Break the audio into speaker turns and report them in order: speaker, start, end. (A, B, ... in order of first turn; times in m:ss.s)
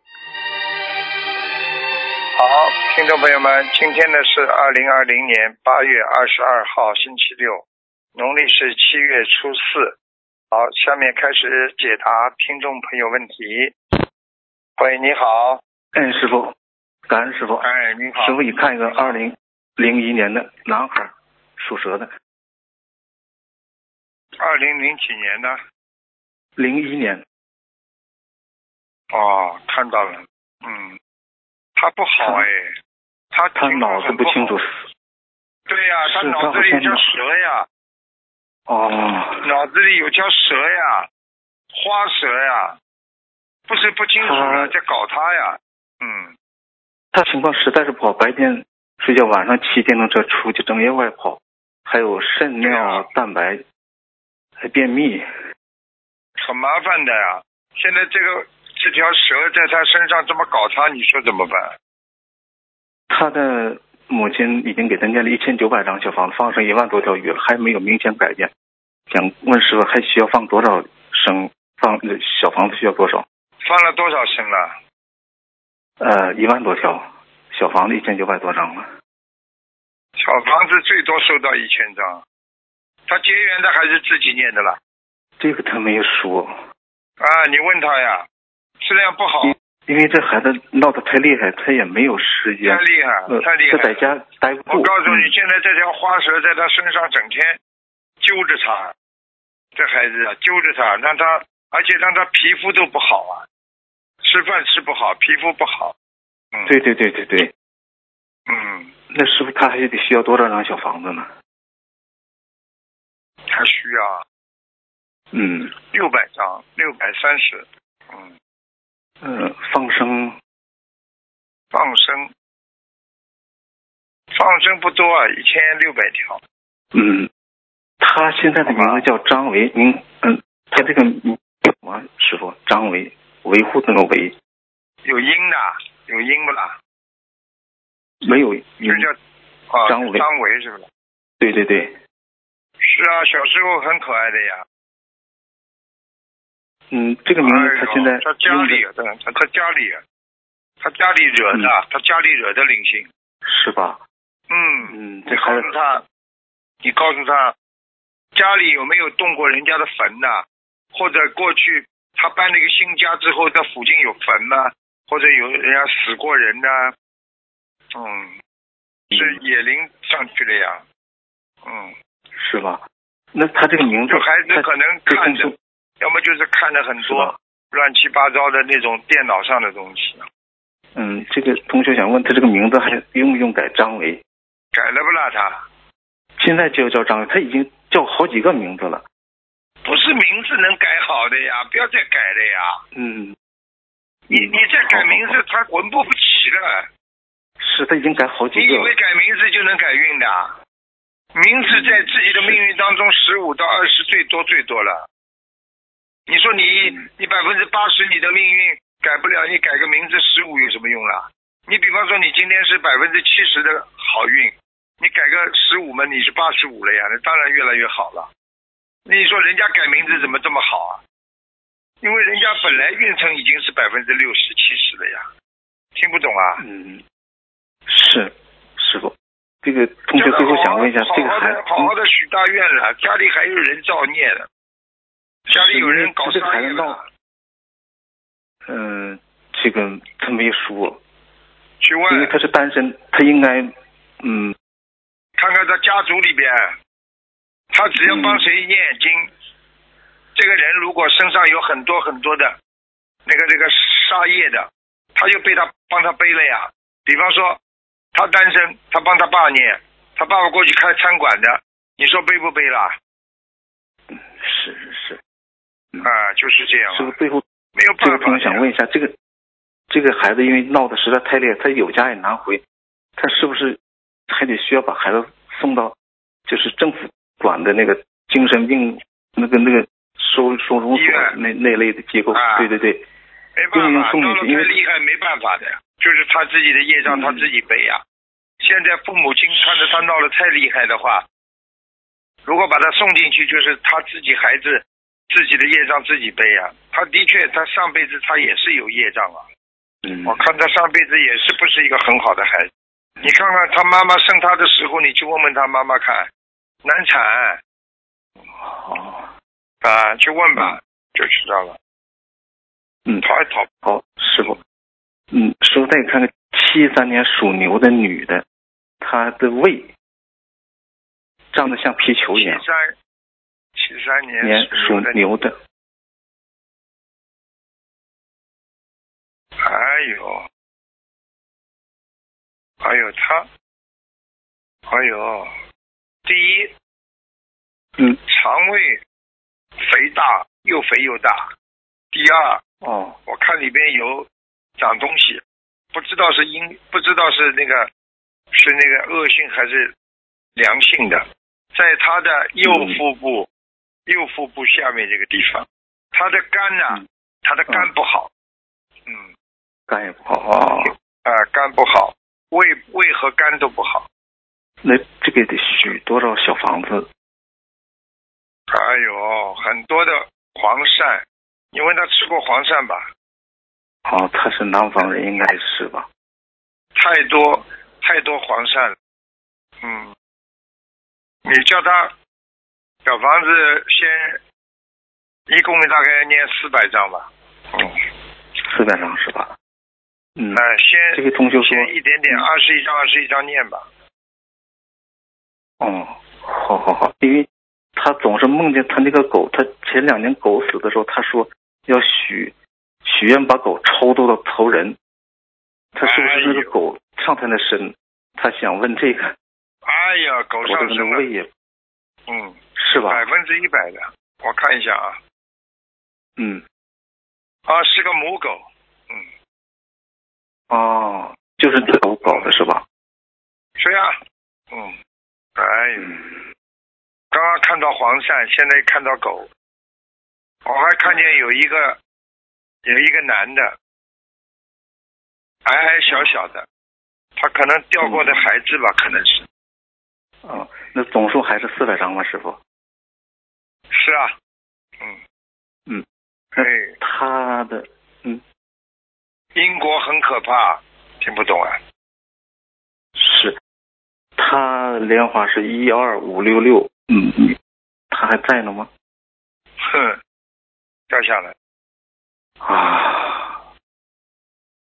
0:02.4-0:07.6 A
0:08.1-0:09.9 A
0:10.5-0:13.7 A
0:14.8-0:15.6 A
0:15.9-0:16.5 B
0:17.1-0:22.1 B
0:17.6-0:19.2 A
0:24.4-0:25.6 A
0:26.6-0:27.2 B
0:29.1-0:31.0 A
0:31.8-0:32.7 A
0:32.2-0:32.4 B
0:33.3-0:34.6 A
0:33.6-0:34.8 B
0:35.7-0:37.7 A
0:36.0-0:37.1 B
0:38.7-0:39.4 B
0:39.4-0:41.1 A
0:41.7-0:42.8 A
0:43.7-0:46.3 A
0:44.2-0:44.7 B
0:47.1-0:53.6 B
0:52.6-0:53.1 A
0:54.6-0:55.2 B
0:56.4-1:01.7 A
1:03.1-1:08.5 B
1:09.1-1:13.2 B
1:13.6-1:14.7 A
1:16.0-1:18.9 B
1:20.2-1:22.2 A
1:23.1-1:24.8 A
1:25.4-1:26.6 B
1:27.2-1:28.2 A
1:28.8-1:29.5 A
1:29.4-1:35.3 B
1:32.6-1:34.0 A
1:34.7-1:37.6 A
1:38.2-1:38.9 A
1:39.8-1:43.4 A
1:44.2-1:45.9 A
1:46.7-1:47.5 B
1:48.5-1:48.9 A
1:49.1-1:51.3 B
1:53.5-1:54.2 A
1:55.3-1:55.7 B
1:55.8-1:58.3 A
1:59.2-2:00.4 B
2:01.7-2:02.3 A
2:04.3-2:06.4 A
2:06.9-2:07.3 B
2:08.0-2:14.3 B
2:08.6-2:09.0 A
2:15.0-2:16.7 A
2:18.2-2:19.1 B
2:18.8-2:19.1 A
2:19.7-2:20.8 A
2:19.8-2:20.2 B
2:21.4-2:21.9 B
2:22.8-2:24.6 A
2:26.9-2:28.8 B
2:27.4-2:30.0 A
2:30.8-2:33.0 A
2:33.4-2:34.0 B
2:34.5-2:36.0 A
2:34.8-2:35.7 B
2:36.8-2:37.5 A
2:38.3-2:46.9 A
2:47.9-2:48.3 A
2:49.1-2:49.4 B
2:49.1-2:50.8 A
2:51.6-2:51.9 A
2:52.4-2:52.8 B
2:53.3-2:55.5 B
2:53.9-3:00.2 A
2:57.0-2:57.4 B
3:00.9-3:04.2 B
3:04.7-3:05.6 A
3:06.4-3:09.0 B
3:09.8-3:12.8 A
3:12.9-3:13.4 B
3:14.3-3:16.9 A
3:14.3-3:15.4 B
3:17.6-3:18.9 B
3:18.5-3:20.5 A
3:21.3-3:25.0 A
3:21.7-3:22.6 B
3:26.3-3:38.3 A
3:26.7-3:27.0 B
3:39.0-3:41.0 A
3:40.0-3:40.4 B
3:42.0-3:45.3 A
3:42.6-3:42.9 B
3:46.0-3:46.6 A
3:46.6-3:47.0 B
3:47.9-3:51.9 B
3:50.1-3:54.5 A
3:55.5-3:57.0 B
3:55.5-3:57.0 A
3:58.7-4:01.0 B
4:01.8-4:02.3 A
4:02.1-4:04.5 B
4:05.4-4:06.7 A
4:07.7-4:09.3 A
4:08.0-4:08.4 B
4:10.4-4:12.6 A
4:13.2-4:17.6 A
4:18.1-4:22.9 A
4:24.1-4:25.2 B
4:26.0-4:27.1 A
4:26.9-4:27.4 B
4:27.8-4:28.6 A
4:28.0-4:29.1 B
4:29.9-4:32.6 B
4:33.2-4:35.9 B
4:36.5-4:43.0 B
4:40.9-4:41.3 A
4:42.3-4:42.7 A
4:43.6-4:48.0 A
4:43.7-4:44.7 B
4:47.0-4:47.5 B
4:48.6-4:51.2 A
4:49.6-4:50.0 B
4:52.4-4:59.4 A
5:00.0-5:00.4 B
5:00.2-5:02.7 A
5:03.2-5:06.3 A
5:06.8-5:07.6 A
5:08.6-5:09.3 B
5:09.8-5:11.8 A
5:13.2-5:13.7 A
5:13.8-5:14.5 B
5:15.3-5:18.4 B
5:19.0-5:19.9 B
5:21.5-5:22.6 B
5:22.3-5:22.9 A
5:23.8-5:25.2 A
5:24.4-5:25.6 B
5:29.6-5:30.4 A
5:32.8-5:33.5 A
5:34.9-5:35.5 A
5:36.2-5:36.7 A
5:38.3-5:39.0 A
5:39.8-5:41.5 A
5:42.1-5:42.6 A
5:42.8-5:43.2 B
5:43.2-5:44.3 A
5:44.8-5:45.4 A
5:45.9-5:47.9 A
5:48.5-5:49.9 A
5:50.6-5:51.2 A
5:51.7-5:53.5 A
5:52.6-5:53.0 B
5:54.1-5:58.3 A
5:59.9-6:00.9 B
6:00.8-6:04.0 A
6:04.8-6:07.1 B
6:08.7-6:11.2 A
6:11.7-6:13.1 A
6:14.0-6:16.1 B
6:17.0-6:18.9 A
6:19.8-6:20.1 A
6:21.4-6:22.1 A
6:23.0-6:24.4 A
6:25.5-6:28.0 A
6:28.7-6:29.5 B
6:30.4-6:32.4 B
6:30.5-6:33.8 A
6:35.8-6:42.5 B
6:43.0-6:45.0 B
6:45.9-6:49.3 B
6:46.0-6:46.7 A
6:49.8-6:51.2 A
6:50.6-6:51.5 B
6:52.3-6:55.2 A
6:52.8-6:53.2 B
6:56.4-6:56.6 B
6:57.7-6:59.2 A
7:00.7-7:02.8 B
7:03.8-7:04.1 A
7:05.6-7:06.2 A
7:07.3-7:09.5 A
7:10.6-7:12.0 A
7:11.0-7:11.4 B
7:12.8-7:13.7 A
7:15.6-7:16.6 A
7:17.4-7:19.4 A
7:18.0-7:18.5 B
7:20.4-7:22.6 B
7:23.9-7:24.3 A
7:26.6-7:26.9 A
7:26.6-7:28.4 B
7:29.6-7:31.8 A
7:33.2-7:33.5 B
7:34.4-7:37.6 B
7:38.1-7:38.9 B
7:39.8-7:40.2 A
7:41.1-7:41.5 A
7:42.6-7:43.6 B